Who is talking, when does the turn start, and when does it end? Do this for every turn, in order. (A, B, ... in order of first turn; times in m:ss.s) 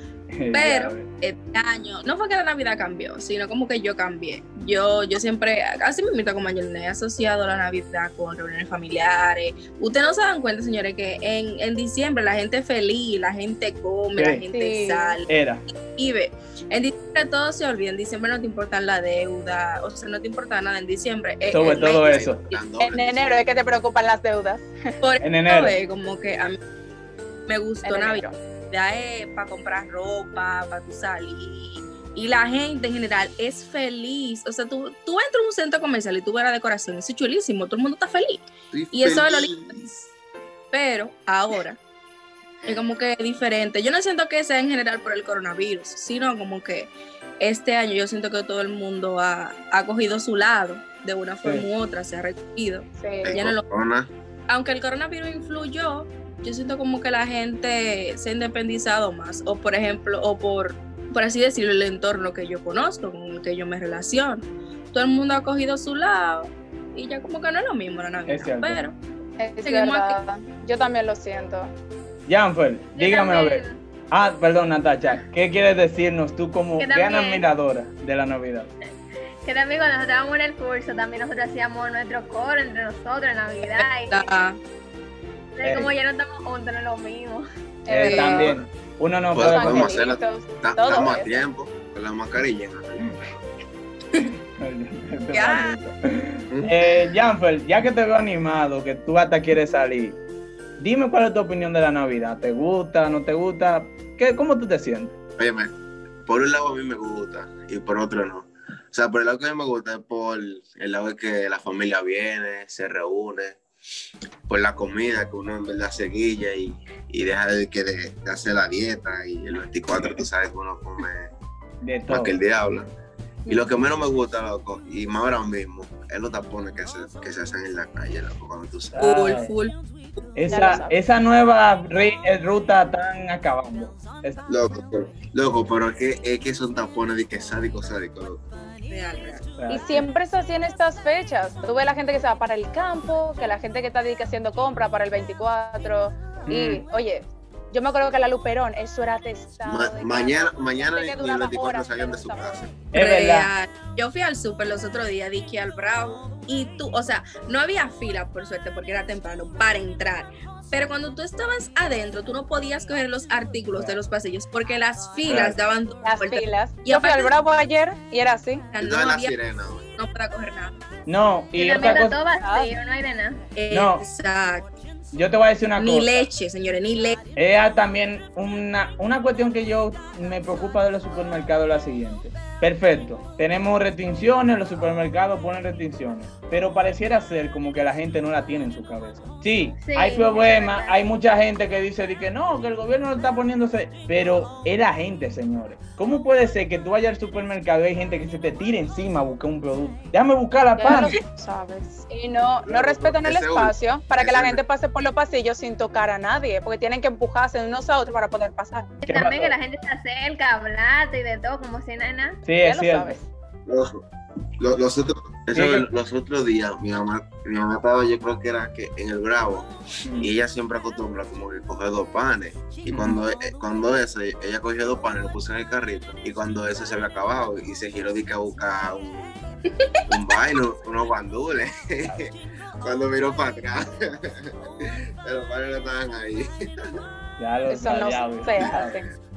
0:00.3-0:01.1 A
0:00.5-0:22.6 B
0:14.1-0:14.4 A
0:14.5-0:15.1 C
0:15.3-0:15.6 A
0:21.5-0:22.4 A
0:21.5-0:23.4 D
0:22.8-0:24.7 C
0:25.0-0:26.6 B
0:25.2-0:25.7 A
0:27.5-0:40.0 B
0:27.8-0:28.3 C
0:38.7-0:39.8 D
0:40.7-0:41.8 B
0:42.6-0:53.6 B
0:51.4-0:51.7 A
0:53.0-0:53.3 C
0:53.2-0:54.1 D
0:54.5-1:09.0 B
1:08.3-1:08.8 A
1:09.4-1:11.7 C
1:09.6-1:10.2 B
1:12.3-1:18.7 A
1:12.9-1:13.8 E
1:16.8-1:17.4 E
1:19.4-1:24.2 E
1:23.7-1:24.6 B
1:25.6-1:27.4 E
1:25.6-1:25.9 A
1:27.8-1:28.5 C
1:27.9-1:29.9 A
1:28.0-1:28.5 B
1:29.3-1:33.1 D
1:29.4-1:31.4 C
1:34.2-1:40.2 A
1:35.3-1:35.7 B
1:36.5-1:36.9 D
1:40.8-1:45.2 A
1:45.4-1:45.7 D
1:46.2-1:53.6 D
1:54.5-2:01.3 D
2:01.8-2:02.4 A
2:02.1-2:02.9 D
2:03.5-2:09.0 D
2:08.9-2:09.5 A
2:09.0-2:09.7 B
2:10.3-2:14.4 A
2:10.5-2:10.9 C
2:14.5-2:18.4 D
2:18.9-2:19.5 B
2:19.5-2:20.1 A
2:19.7-2:32.7 C
2:26.5-2:26.8 A
2:29.6-2:32.8 D
2:32.9-2:33.5 A
2:32.9-2:47.3 B
2:45.3-2:45.6 A
2:46.0-2:48.6 C
2:48.7-2:49.3 B
2:48.8-2:49.9 D
2:50.0-2:50.8 B
2:51.0-2:52.2 A
2:51.6-2:53.4 E
2:51.8-2:52.7 C
2:53.5-2:54.7 B
2:53.7-2:54.0 A
2:55.1-2:56.3 A
2:55.8-2:57.2 B
2:57.3-3:21.2 A
3:09.8-3:10.9 E
3:20.8-3:28.9 C
3:22.6-3:24.6 D
3:29.0-3:29.6 A
3:29.1-3:32.4 E
3:32.4-3:33.2 A
3:32.6-3:33.2 C
3:33.6-3:34.0 D
3:34.6-3:49.3 D
3:35.5-3:35.9 A
3:40.0-3:40.3 A
3:42.9-3:43.2 A
3:50.1-3:56.5 D
3:52.0-3:52.3 A
3:57.4-3:59.0 A
3:57.7-3:59.1 C